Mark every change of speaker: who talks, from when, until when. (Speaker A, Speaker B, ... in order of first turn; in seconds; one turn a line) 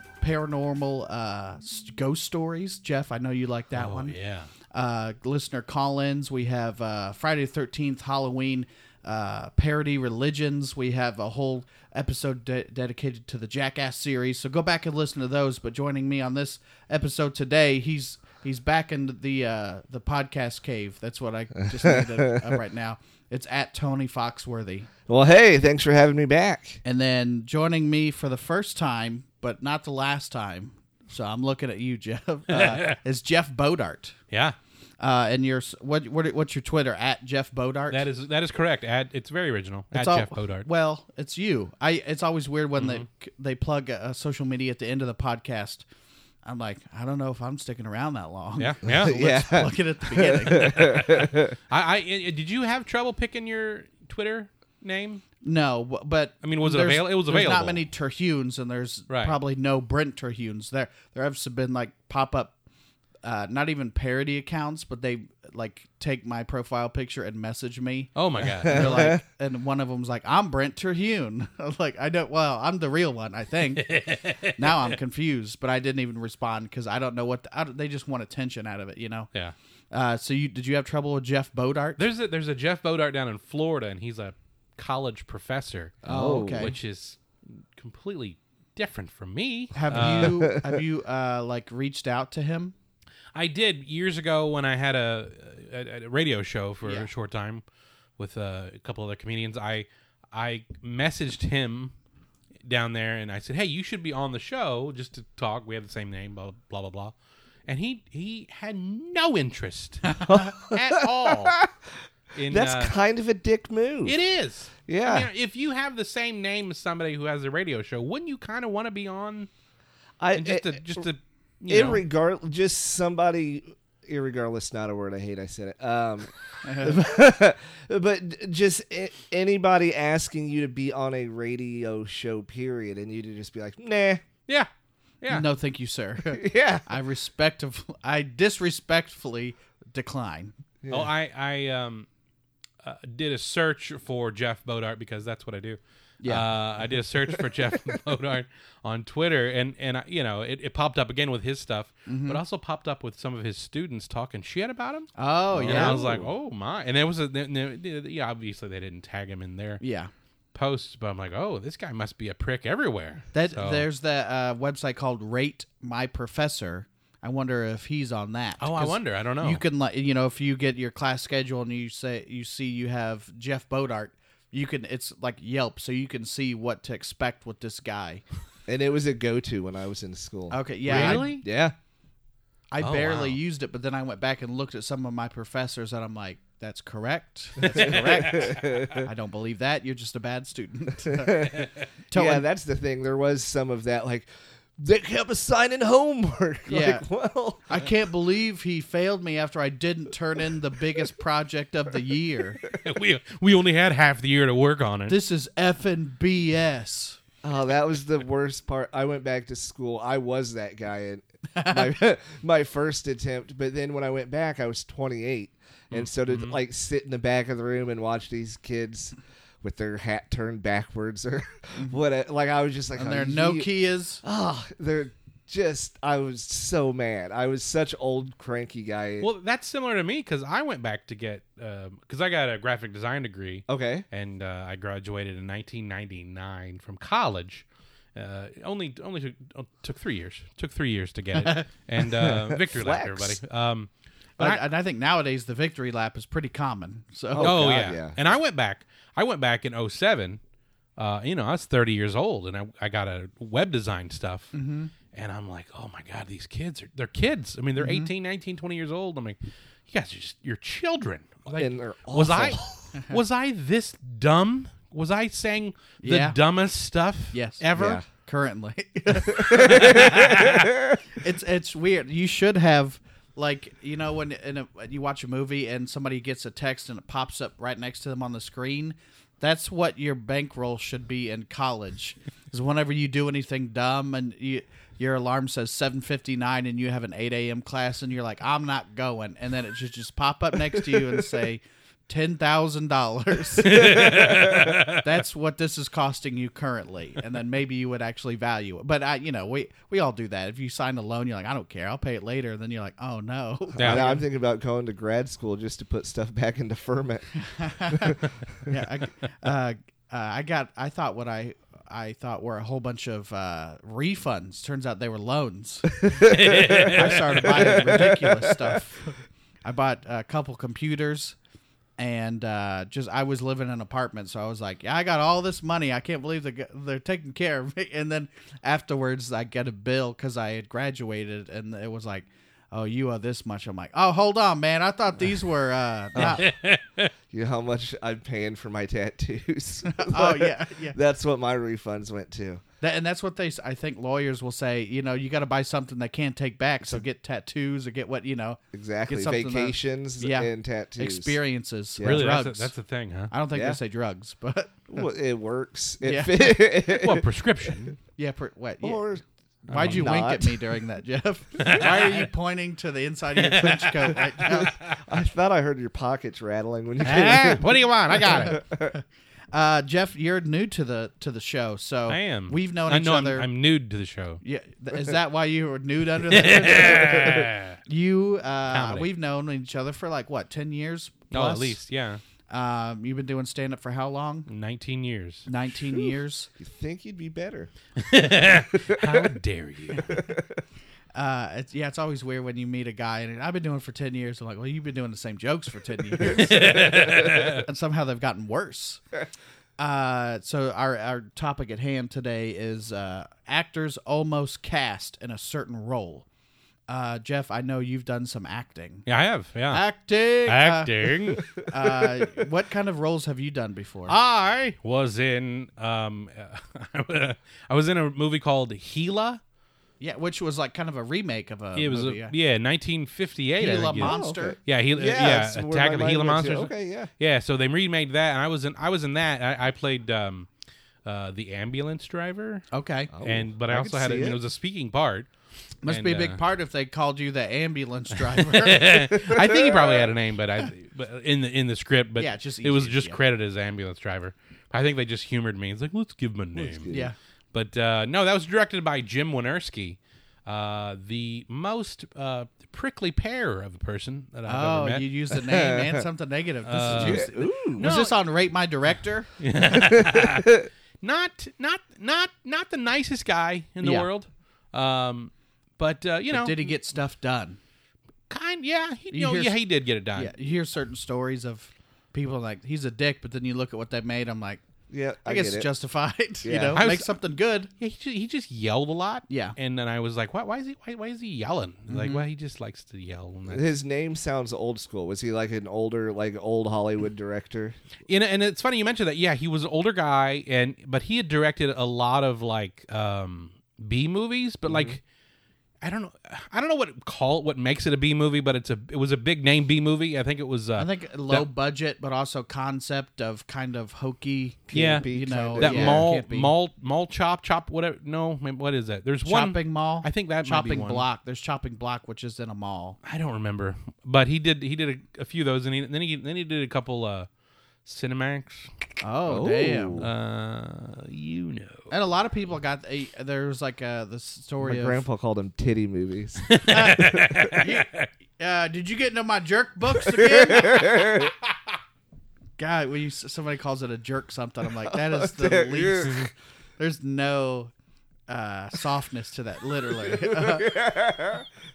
Speaker A: 0.2-4.2
Speaker B: 3.7-4.5
Speaker A: 4.7-24.9
Speaker C: 21.7-22.6
Speaker C: 25.1-26.8
Speaker A: 26.8-34.2
Speaker B: 32.5-33.0
Speaker B: 34.3-34.6
Speaker A: 35.0-38.1
Speaker B: 37.9-40.7
Speaker A: 40.0-45.9
Speaker B: 42.8-43.1
Speaker A: 46.4-51.3
Speaker B: 48.6-49.1
Speaker C: 48.8-51.6
Speaker B: 51.7-55.2
Speaker A: 55.4-62.6
Speaker B: 56.4-57.8
Speaker B: 59.1-59.4
Speaker A: 63.2-79.3
Speaker B: 68.2-69.1
Speaker C: 68.6-69.2
Speaker B: 73.8-74.9
Speaker A: 79.9-82.0
Speaker B: 82.0-90.4
Speaker C: 86.0-86.7
Speaker A: 86.0-86.7
Speaker A: 89.8-92.8
Speaker C: 89.9-90.8
Speaker B: 93.3-97.6
Speaker A: 96.8-97.1
Speaker B: 98.2-101.9
Speaker B: 102.6-107.2
Speaker B: 107.7-111.6
Speaker A: 110.1-110.4
Speaker C: 110.3-111.7
Speaker B: 112.3-113.0
Speaker C: 112.5-114.2
Speaker B: 114.1-119.5
Speaker C: 114.9-115.3
Speaker C: 120.2-121.1
Speaker B: 120.3-122.0
Speaker C: 121.7-126.3
Speaker A: 126.6-127.0
Speaker C: 126.8-134.2
Speaker B: 135.2-135.5
Speaker A: 135.3-140.6
Speaker C: 136.3-137.0
Speaker C: 140.8-141.1
Speaker B: 140.9-142.1
Speaker B: 142.8-159.8
Speaker C: 147.3-148.0
Speaker A: 152.1-152.4
Speaker A: 155.2-156.0
Speaker C: 155.5-156.3
Speaker A: 159.8-160.1
Speaker B: 160.5-163.9
Speaker A: 163.3-178.2
Speaker B: 168.6-169.6
Speaker C: 178.7-181.8
Speaker A: 180.5-181.3
Speaker B: 180.9-181.4
Speaker A: 182.7-192.4
Speaker B: 182.8-183.4
Speaker B: 187.6-188.6
Speaker C: 187.7-189.1
Speaker C: 191.1-191.6
Speaker C: 192.1-197.8
Speaker A: 196.7-197.1
Speaker A: 197.7-202.6
Speaker B: 202.7-205.2
Speaker A: 205.1-207.2
Speaker C: 207.4-223.7
Speaker A: 211.6-211.8
Speaker B: 215.9-216.6
Speaker A: 223.0-224.2
Speaker C: 224.2-229.3
Speaker B: 229.2-244.6
Speaker C: 233.7-234.1
Speaker A: 241.4-241.7
Speaker C: 242.1-243.4
Speaker A: 244.4-247.7
Speaker C: 247.3-248.2
Speaker B: 247.4-250.4
Speaker B: 251.0-254.5
Speaker A: 254.5-254.9
Speaker B: 255.1-268.0
Speaker A: 257.8-258.1
Speaker C: 261.5-262.6
Speaker A: 266.0-266.4
Speaker A: 267.3-304.2
Speaker C: 267.7-268.1
Speaker C: 269.3-271.0
Speaker B: 269.6-270.7
Speaker B: 293.6-295.0
Speaker C: 293.7-294.7
Speaker C: 303.7-307.3
Speaker B: 303.8-304.1
Speaker A: 307.4-316.0
Speaker C: 307.9-308.2
Speaker C: 316.0-318.6
Speaker B: 316.3-317.8
Speaker A: 316.9-321.4
Speaker A: 322.0-336.5
Speaker C: 336.1-336.4
Speaker B: 336.2-337.1
Speaker C: 337.3-342.6
Speaker A: 339.9-341.0
Speaker A: 342.8-352.7
Speaker C: 348.7-351.4
Speaker C: 352.0-352.2
Speaker B: 352.0-353.3
Speaker A: 353.3-355.1
Speaker C: 353.5-353.8
Speaker C: 354.9-357.2
Speaker A: 356.0-356.6
Speaker B: 356.9-358.0
Speaker A: 358.2-359.1
Speaker C: 358.8-360.6
Speaker A: 359.7-364.7
Speaker B: 359.7-360.1
Speaker B: 361.6-362.3
Speaker B: 363.4-364.2
Speaker C: 364.4-368.9
Speaker B: 367.0-368.6
Speaker A: 367.1-367.5
Speaker A: 368.2-369.0
Speaker A: 369.5-373.5
Speaker B: 372.1-374.4
Speaker A: 374.4-381.8
Speaker B: 376.3-377.8
Speaker B: 378.7-379.1
Speaker B: 381.3-382.2
Speaker A: 382.5-384.5
Speaker B: 384.5-385.5
Speaker A: 385.5-386.5
Speaker C: 386.6-387.7
Speaker B: 388.0-390.1
Speaker C: 388.6-389.3
Speaker A: 389.9-390.3
Speaker C: 390.1-390.6
Speaker A: 391.1-399.0
Speaker B: 396.2-397.6
Speaker A: 399.8-406.3
Speaker A: 406.9-409.1
Speaker B: 409.1-409.9
Speaker A: 409.7-414.2
Speaker B: 410.5-411.5
Speaker C: 411.8-412.1
Speaker B: 414.1-419.4
Speaker A: 420.0-422.3
Speaker B: 421.8-430.5
Speaker A: 423.6-424.6
Speaker C: 423.7-427.1
Speaker B: 431.1-432.7
Speaker A: 432.7-433.1
Speaker C: 433.1-434.4
Speaker B: 433.2-435.3
Speaker A: 435.8-439.5
Speaker B: 435.9-436.4
Speaker B: 438.3-447.0
Speaker C: 439.2-440.1
Speaker A: 442.2-443.2
Speaker C: 446.6-447.1
Speaker B: 447.5-455.0
Speaker A: 454.5-459.3
Speaker C: 455.3-456.0
Speaker B: 456.7-458.1
Speaker C: 456.8-457.9
Speaker B: 459.4-466.7
Speaker C: 459.8-460.7
Speaker A: 463.8-464.1
Speaker A: 466.3-467.6
Speaker B: 468.3-470.3
Speaker A: 469.1-469.6
Speaker A: 470.1-474.6
Speaker C: 474.9-475.7
Speaker A: 475.3-477.7
Speaker C: 476.4-476.8
Speaker B: 476.8-477.1
Speaker B: 477.8-483.6
Speaker A: 479.3-479.6
Speaker A: 481.9-482.2
Speaker C: 483.5-487.8
Speaker B: 488.1-495.0
Speaker C: 494.7-495.0
Speaker B: 495.8-501.5
Speaker A: 500.8-506.5
Speaker C: 504.7-506.1
Speaker B: 504.7-511.1
Speaker A: 509.3-513.0
Speaker B: 513.0-517.3
Speaker B: 517.9-518.9
Speaker A: 519.0-520.0
Speaker C: 519.3-520.1
Speaker B: 520.0-521.9
Speaker A: 521.9-525.0
Speaker C: 524.6-527.5
Speaker B: 526.5-528.1
Speaker A: 526.7-527.9
Speaker A: 528.4-531.2
Speaker C: 530.0-531.3
Speaker A: 532.6-537.7
Speaker C: 534.9-536.3
Speaker A: 538.3-540.8
Speaker C: 539.9-541.5